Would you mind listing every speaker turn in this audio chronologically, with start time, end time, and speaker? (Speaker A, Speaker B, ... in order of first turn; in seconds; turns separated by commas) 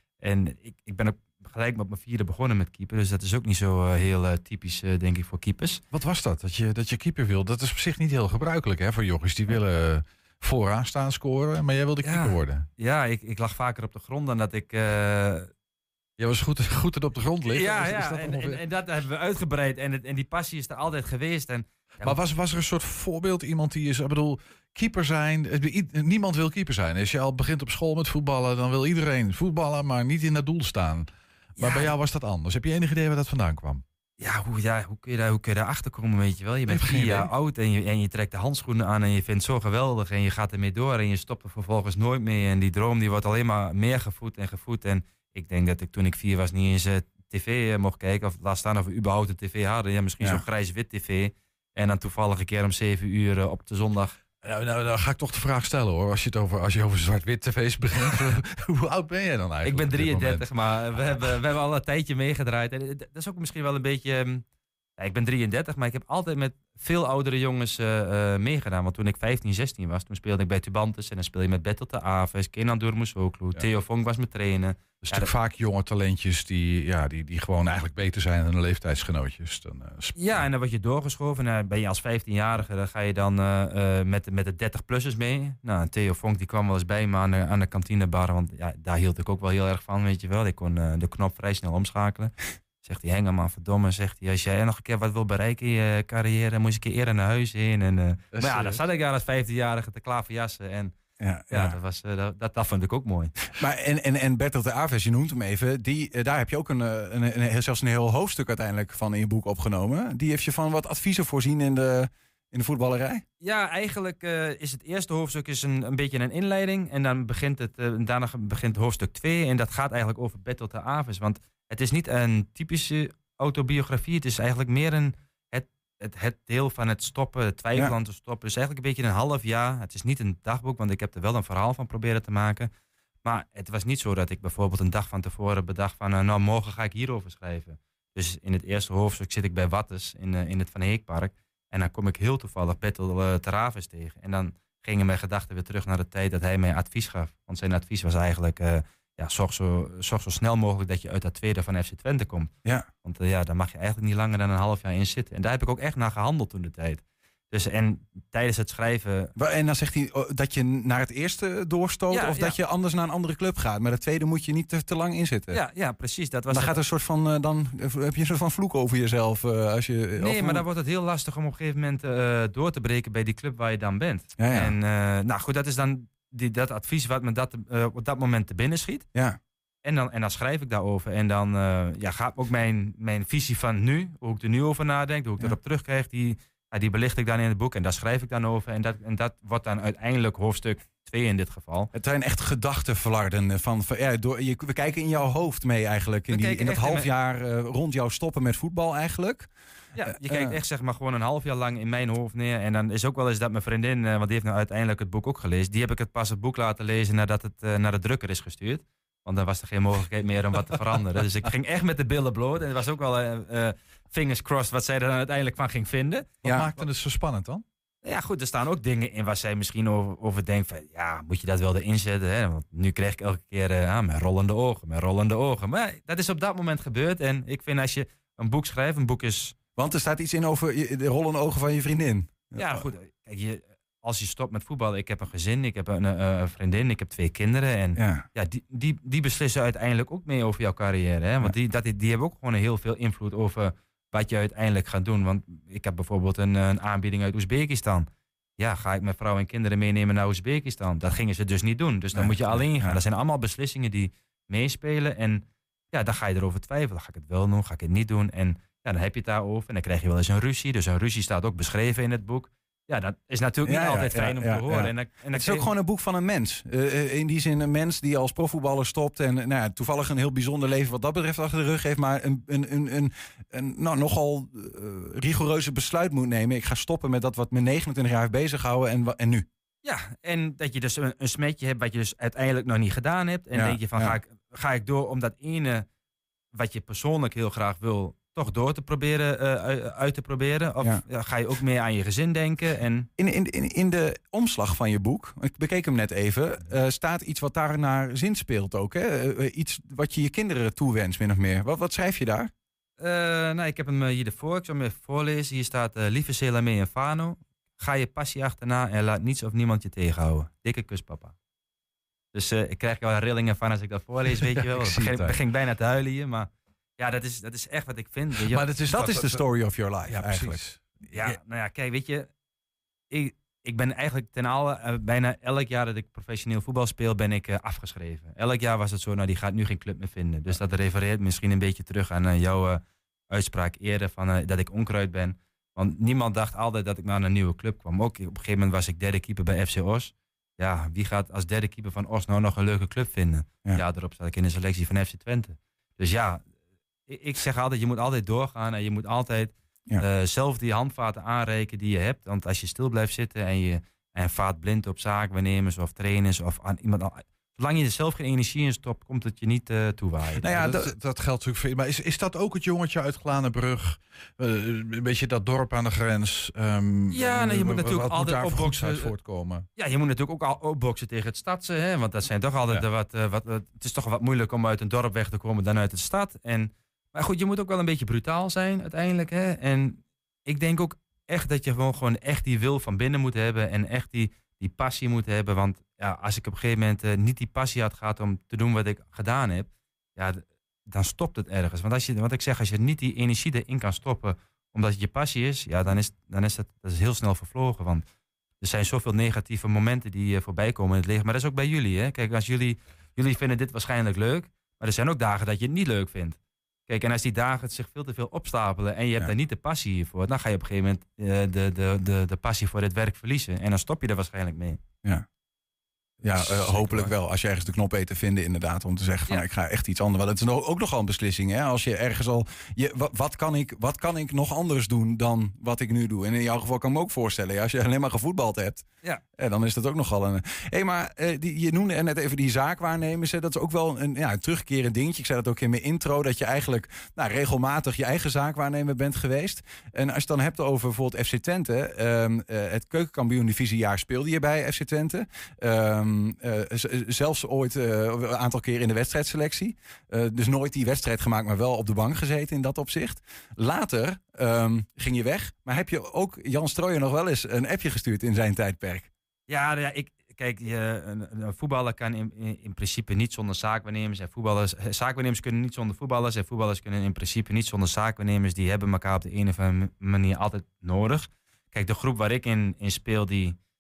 Speaker A: 0.2-5.8, Speaker B: 5.9-12.7, Speaker A: 12.0-15.5, Speaker B: 16.2-18.6, Speaker A: 17.5-22.2, Speaker B: 22.0-33.8, Speaker A: 31.6-31.9, Speaker A: 34.2-54.2, Speaker B: 36.7-37.3, Speaker B: 54.4-61.3, Speaker A: 59.6-64.4, Speaker A: 65.0-75.3, Speaker B: 75.0-80.5, Speaker A: 80.2-100.9, Speaker B: 98.3-98.8, Speaker C: 101.2-101.8, Speaker A: 101.5-103.3, Speaker C: 103.5-113.2, Speaker A: 113.4-132.7, Speaker A: 133.2-152.5, Speaker A: 153.0-159.3, Speaker C: 159.4-165.6, Speaker A: 162.1-162.6, Speaker A: 165.5-166.8, Speaker C: 166.5-170.7, Speaker A: 170.2-179.1, Speaker C: 174.4-174.7, Speaker A: 179.8-191.9, Speaker C: 191.9-199.5, Speaker A: 196.3-197.1, Speaker A: 199.9-216.4, Speaker C: 200.1-200.6, Speaker B: 216.4-217.6, Speaker C: 216.4-216.7, Speaker A: 218.0-229.6, Speaker C: 229.8-232.9, Speaker A: 232.6-248.1, Speaker C: 238.0-238.3, Speaker A: 248.6-265.7, Speaker C: 252.1-253.0, Speaker C: 263.7-279.5, Speaker A: 279.8-285.9, Speaker C: 283.6-284.2, Speaker A: 286.5-293.1, Speaker C: 293.2-302.5, Speaker A: 303.0-311.3, Speaker A: 312.3-319.2, Speaker B: 314.4-315.4, Speaker B: 318.4-319.4, Speaker C: 318.9-320.6, Speaker B: 320.1-320.8, Speaker A: 321.1-322.3, Speaker A: 323.1-346.4, Speaker A: 347.1-360.5, Speaker B: 360.4-369.7, Speaker C: 360.4-360.9, Speaker A: 367.1-369.1, Speaker A: 369.8-398.1, Speaker A: 398.6-414.8, Speaker C: 416.2-459.1, Speaker A: 416.6-417.0, Speaker A: 459.5-473.6